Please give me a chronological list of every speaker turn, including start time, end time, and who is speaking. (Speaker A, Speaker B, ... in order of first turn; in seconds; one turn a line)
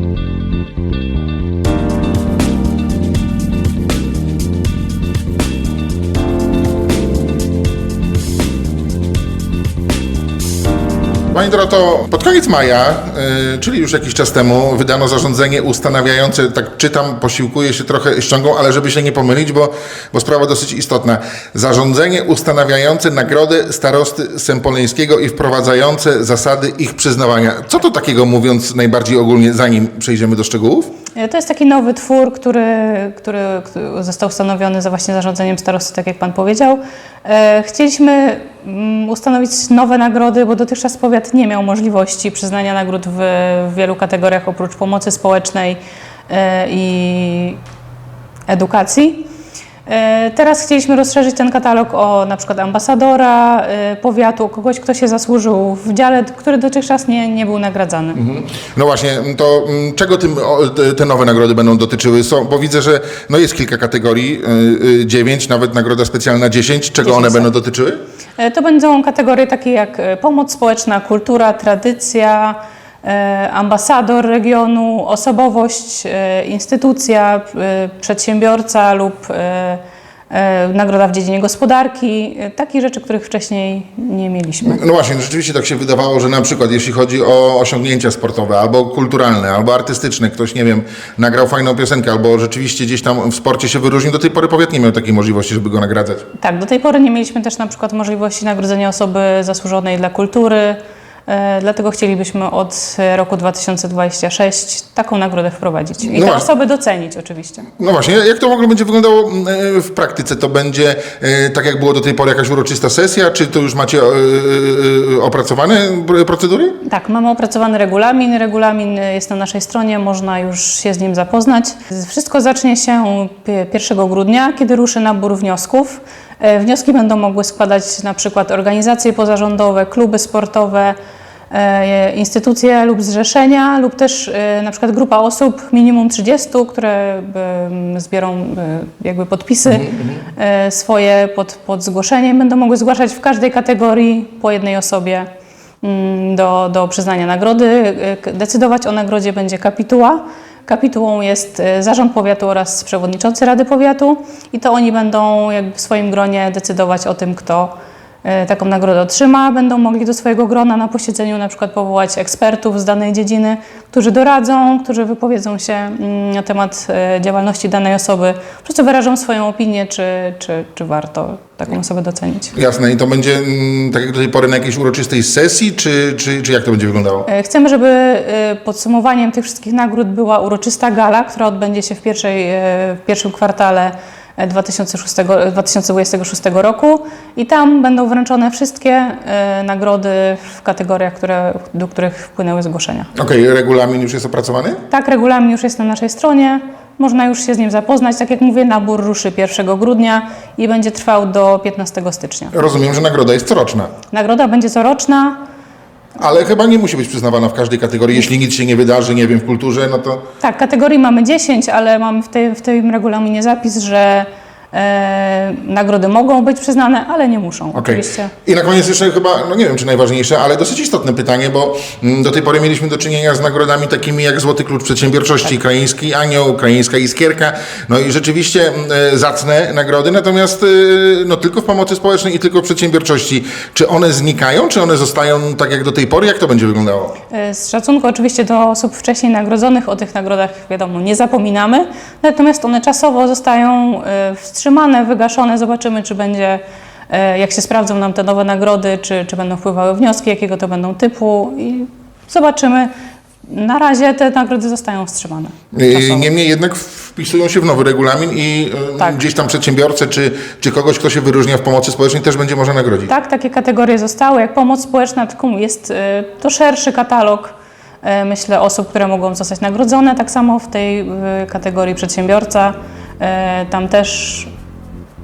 Speaker A: 11.3-30.9
Speaker B: 31.2-47.6
Speaker B: 48.5-49.3
Speaker B: 49.9-58.2
Speaker A: 58.1-68.0
Speaker B: 67.0-67.5
Speaker B: 68.4-84.8
Speaker A: 84.6-96.2
Speaker B: 96.4-107.7
Speaker A: 106.0-106.5
Speaker A: 107.8-116.8
Speaker B: 116.8-130.9
Speaker B: 131.5-145.3
Speaker A: 139.7-140.2
Speaker B: 145.8-157.7
Speaker B: 158.2-172.6
Speaker A: 172.6-177.3
Speaker B: 177.3-193.1
Speaker A: 193.2-194.8
Speaker B: 194.9-202.5
Speaker A: 202.5-203.9
Speaker B: 204.1-205.4
Speaker A: 206.2-210.2
Speaker B: 210.4-218.3
Speaker A: 217.7-237.1
Speaker B: 237.3-252.9
Speaker B: 253.5-256.3
Speaker A: 255.7-263.1
Speaker B: 263.1-274.5